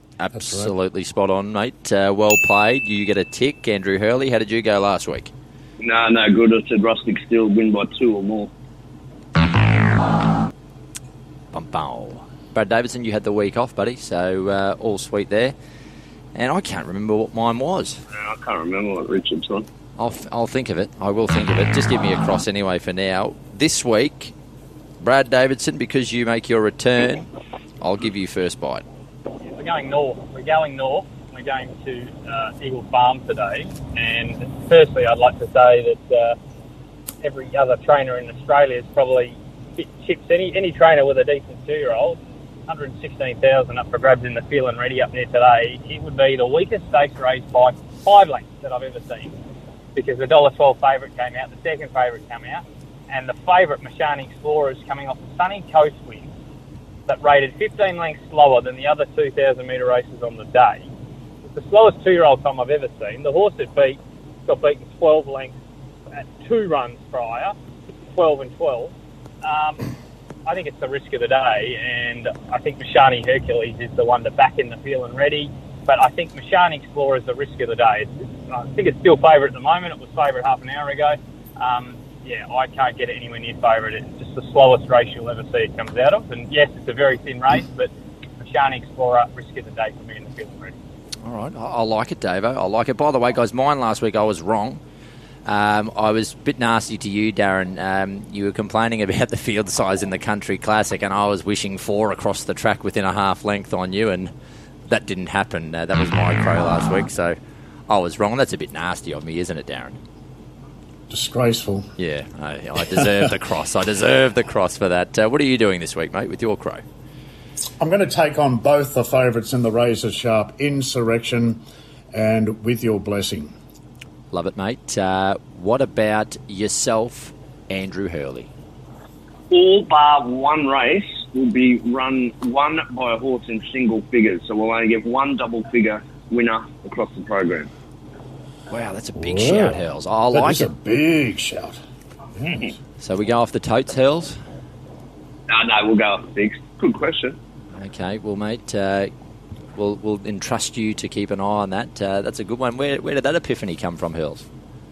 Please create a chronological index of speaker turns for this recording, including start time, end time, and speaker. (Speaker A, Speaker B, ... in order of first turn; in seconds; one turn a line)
Speaker A: 0.2-5.3
Speaker B: 0.3-0.7
Speaker C: 5.8-8.5
Speaker A: 11.5-15.5
Speaker A: 16.3-18.0
Speaker C: 18.1-19.7
Speaker A: 20.0-24.3
Speaker A: 25.0-27.3
Speaker A: 27.8-28.8
Speaker D: 29.5-36.4
Speaker D: 37.2-49.4
Speaker D: 49.9-56.3
Speaker D: 57.1-60.9
Speaker D: 61.5-65.5
Speaker D: 66.1-67.5
Speaker D: 68.1-69.8
Speaker D: 70.5-90.7
Speaker A: 91.2-94.8
Speaker A: 95.5-104.3
Speaker A: 104.9-107.4
Speaker A: 107.9-110.0
Speaker B: 111.1-111.9
Speaker A: 112.0-116.8
Speaker B: 112.9-113.2
Speaker B: 117.8-121.6
Speaker B: 122.1-123.5
Speaker A: 124.3-128.5
Speaker C: 129.5-137.7
Speaker A: 138.7-140.7
Speaker B: 139.2-139.8
Speaker B: 140.3-141.8
Speaker B: 142.4-142.7
Speaker A: 143.0-144.4
Speaker C: 145.5-147.4
Speaker A: 147.8-149.1
Speaker A: 149.7-154.4